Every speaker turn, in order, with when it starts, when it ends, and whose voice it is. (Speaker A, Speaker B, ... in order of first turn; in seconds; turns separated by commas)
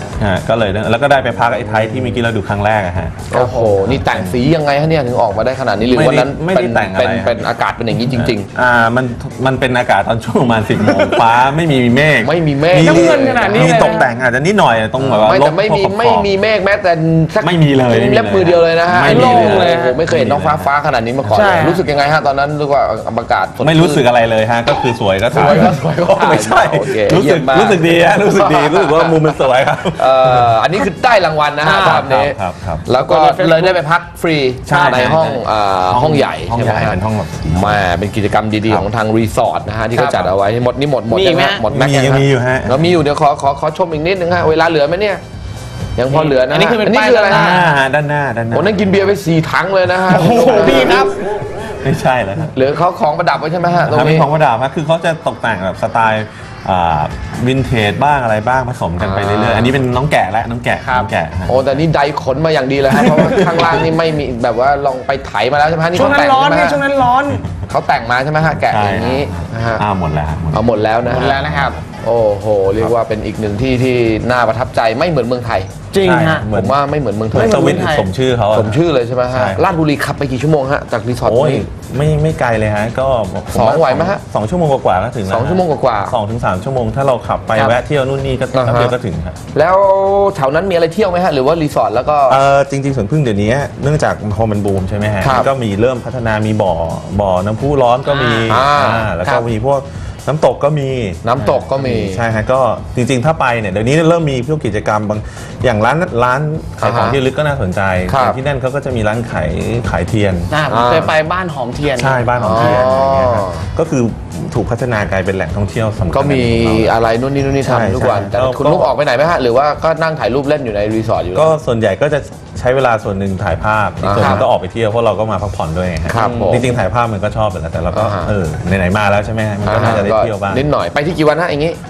Speaker A: 0.2-3.3, Speaker B: 3.3-8.5, Speaker C: 3.3-3.9, Speaker A: 3.9-4.4, Speaker A: 5.9-7.5, Speaker A: 8.1-16.4, Speaker B: 12.2-13.9, Speaker C: 12.7-14.1, Speaker B: 15.0-24.1, Speaker A: 17.4-20.7, Speaker C: 19.0-20.0, Speaker A: 21.2-21.6, Speaker C: 21.3-21.8, Speaker A: 23.6-30.6, Speaker B: 25.3-29.4, Speaker B: 29.9-37.0, Speaker C: 31.6-32.2, Speaker A: 32.0-32.8, Speaker C: 33.0-33.8, Speaker A: 34.6-37.8, Speaker C: 34.7-35.2, Speaker B: 37.5-45.2, Speaker C: 39.9-40.3, Speaker C: 41.1-41.6, Speaker A: 41.7-42.9, Speaker B: 46.0-47.6, Speaker C: 46.1-47.7, Speaker A: 47.3-49.1, Speaker B: 48.5-51.1, Speaker C: 50.1-51.3, Speaker A: 50.5-52.5, Speaker B: 52.5-54.3, Speaker A: 53.8-61.8, Speaker B: 59.0-59.8, Speaker C: 60.8-61.1, Speaker B: 61.5-66.8, Speaker C: 63.0-63.8, Speaker C: 65.9-67.4, Speaker B: 67.6-69.8, Speaker A: 68.6-71.8, Speaker B: 70.5-71.4, Speaker C: 71.1-71.8, Speaker B: 72.0-75.7, Speaker C: 75.9-76.5, Speaker A: 76.0-76.8, Speaker B: 76.5-77.8, Speaker A: 77.3-79.6, Speaker C: 77.3-78.1, Speaker B: 78.5-81.7, Speaker A: 81.2-89.3, Speaker B: 83.5-84.2, Speaker B: 85.3-86.2, Speaker B: 88.5-88.9, Speaker B: 89.5-92.4, Speaker A: 92.3-110.5, Speaker B: 95.2-95.5, Speaker C: 98.0-98.6, Speaker B: 98.5-99.5, Speaker B: 101.2-102.2, Speaker B: 106.8-107.2, Speaker B: 108.1-108.4, Speaker C: 110.5-112.8, Speaker B: 110.7-111.1, Speaker A: 111.9-117.0, Speaker B: 112.4-113.6, Speaker B: 116.1-121.6, Speaker A: 117.6-118.9, Speaker A: 121.3-130.7, Speaker B: 124.0-124.5, Speaker B: 126.0-126.8, Speaker C: 126.1-126.8, Speaker B: 127.9-128.3, Speaker B: 129.6-131.8, Speaker C: 129.8-130.0